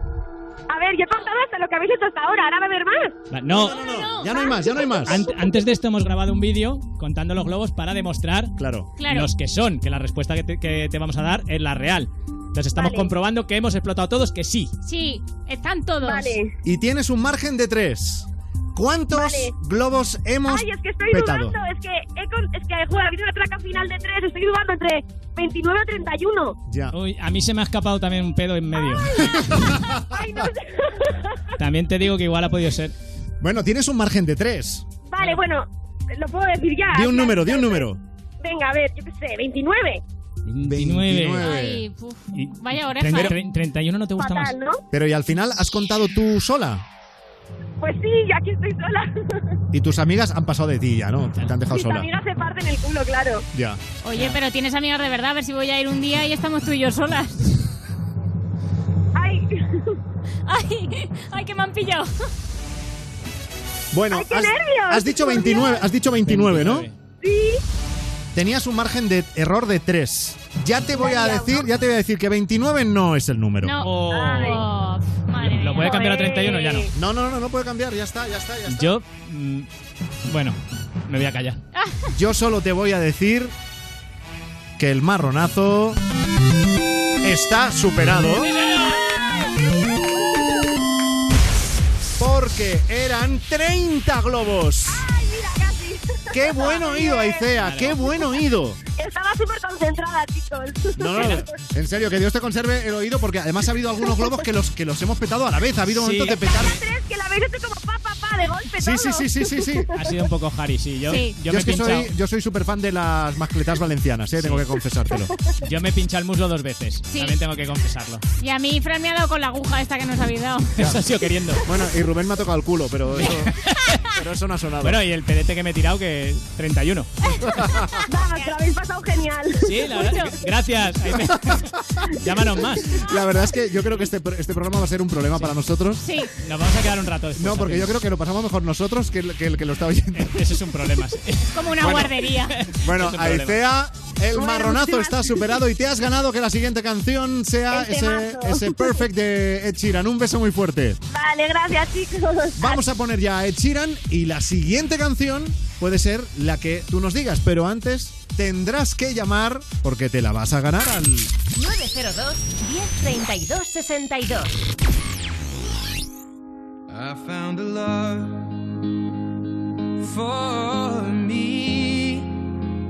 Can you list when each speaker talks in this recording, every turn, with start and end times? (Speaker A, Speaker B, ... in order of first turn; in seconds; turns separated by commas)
Speaker A: 0.7-3.1, Speaker B: 3.3-3.8, Speaker C: 3.6-5.0, Speaker D: 3.6-5.2, Speaker B: 5.0-14.7, Speaker D: 8.6-8.9, Speaker C: 9.0-9.3, Speaker A: 12.7-13.1, Speaker C: 14.8-16.3, Speaker A: 16.0-16.5, Speaker D: 16.6-21.6, Speaker A: 19.1-19.5, Speaker A: 20.5-26.6, Speaker D: 26.7-26.9, Speaker B: 26.9-29.2, Speaker D: 29.2-30.4, Speaker A: 30.1-31.4, Speaker B: 31.6-32.9, Speaker D: 33.4-34.9, Speaker A: 35.1-37.9, Speaker D: 36.9-38.0, Speaker A: 38.4-40.0, Speaker B: 40.5-41.5, Speaker D: 40.6-41.9, Speaker C: 41.4-43.4, Speaker B: 42.3-44.5, Speaker A: 44.2-44.8, Speaker D: 44.9-46.8, Speaker A: 47.8-49.3, Speaker D: 49.7-52.1, Speaker A: 51.7-53.4, Speaker D: 53.5-53.8, Speaker C: 54.0-57.5, Speaker B: 54.1-54.4, Speaker A: 59.1-60.0, Speaker C: 60.5-62.1, Speaker D: 63.9-66.9, Speaker A: 64.1-65.8, Speaker B: 66.2-67.0, Speaker A: 67.2-67.6, Speaker D: 68.3-73.8, Speaker A: 70.9-71.6, Speaker C: 73.6-76.6, Speaker B: 73.8-74.6, Speaker A: 74.2-74.6, Speaker B: 75.4-76.9, Speaker A: 76.6-76.8, Speaker D: 76.9-79.0, Speaker B: 78.7-79.7, Speaker B: 80.2-81.6, Speaker C: 81.8-82.0, Speaker D: 82.1-83.5, Speaker D: 84.8-86.0, Speaker D: 87.2-88.5, Speaker B: 88.6-89.0, Speaker A: 88.9-90.7, Speaker D: 92.2-95.0, Speaker A: 94.9-97.5, Speaker D: 96.3-98.8, Speaker B: 97.6-98.0, Speaker A: 99.0-101.5, Speaker D: 101.0-106.8, Speaker B: 101.1-101.4, Speaker B: 105.9-106.8, Speaker A: 106.6-109.8, Speaker D: 108.8-109.9, Speaker B: 109.9-112.1, Speaker C: 111.1-111.3, Speaker D: 111.5-115.3, Speaker B: 114.4-114.7, Speaker B: 115.6-118.2, Speaker C: 117.1-117.4, Speaker C: 118.4-120.8, Speaker B: 120.8-121.6, Speaker D: 121.6-123.5, Speaker B: 123.2-124.0, Speaker D: 124.1-125.0, Speaker B: 124.8-127.1, Speaker D: 127.5-128.0, Speaker A: 128.1-129.8, Speaker C: 128.2-128.6, Speaker B: 129.6-133.0, Speaker C: 129.9-130.3, Speaker D: 131.1-131.6, Speaker D: 133.0-136.1, Speaker C: 136.0-136.3, Speaker B: 136.4-137.9, Speaker D: 137.4-140.4, Speaker B: 140.1-143.6, Speaker C: 141.5-142.6, Speaker D: 141.8-142.1, Speaker D: 142.7-151.0, Speaker A: 144.3-145.6, Speaker A: 147.7-149.0, Speaker A: 151.1-152.8, Speaker D: 152.6-161.3, Speaker E: 161.5-164.6, Speaker F: 166.9-168.5, Speaker F: 170.0-172.4